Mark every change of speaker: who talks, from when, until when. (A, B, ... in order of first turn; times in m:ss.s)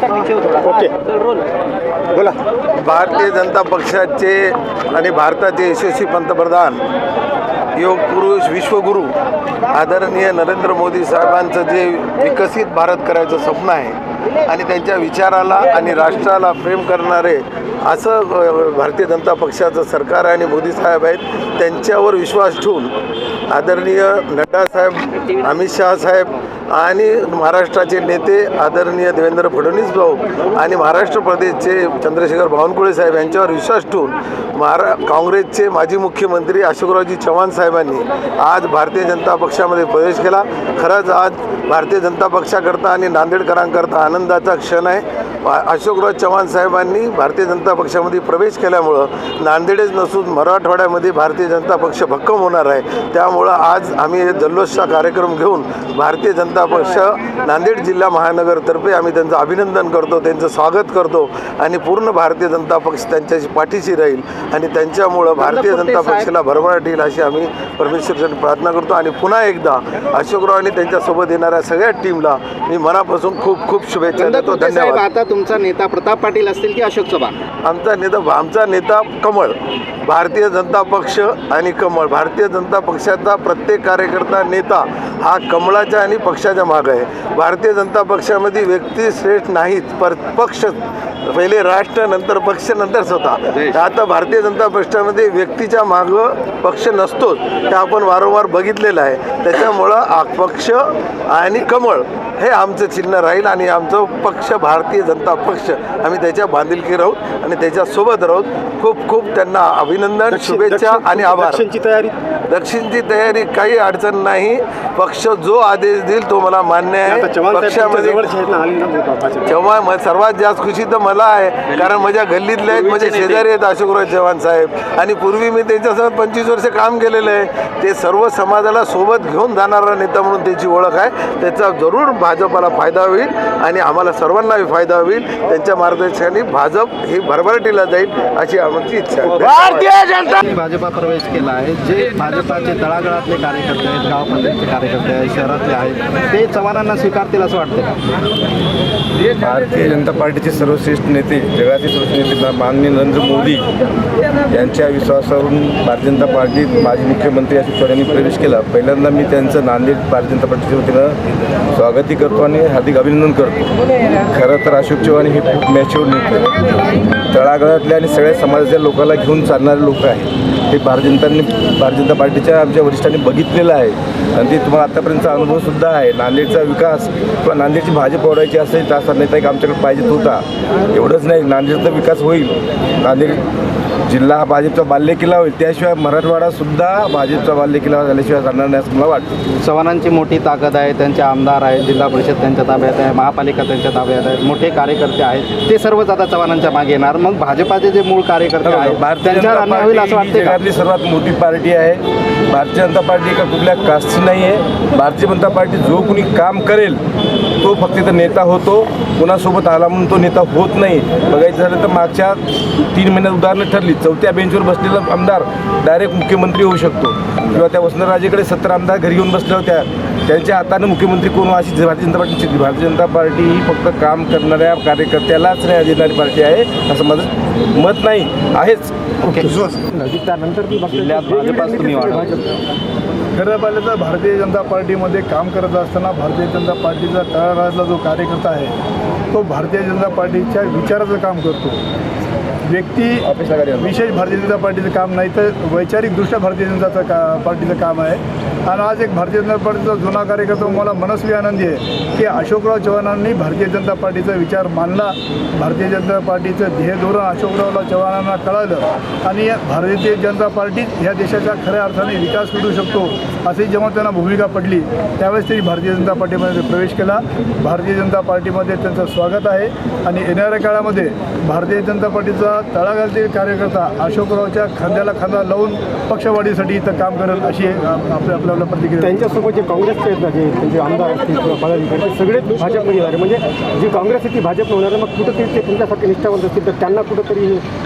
0:00.6-0:01.0 A
0:02.8-0:06.8 B
0:07.8-0:09.1 B
0:09.7-0:22.9 B
0:23.5-1:15.0 B
1:05.4-1:06.3 C
1:14.2-1:17.4 C
1:17.6-1:51.7 B
1:50.3-1:52.1 A
1:52.5-1:58.4 B
1:57.0-1:59.5 A
1:59.5-2:20.1 B
2:20.1-2:28.0 C
2:29.3-2:33.7 D
2:34.5-2:41.2 D
2:41.7-3:03.4 D
3:04.1-3:09.4 D
3:09.6-3:20.6 C
3:18.6-3:27.0 D
3:27.6-3:48.9 D
3:49.3-3:49.6 C
3:49.7-3:52.4 A
3:50.9-3:52.4 D
3:53.3-3:58.7 E
3:59.3-4:01.8 E
4:02.7-4:03.3 E
4:03.2-4:04.0 D
4:03.8-4:39.3 E
4:39.0-4:47.6 A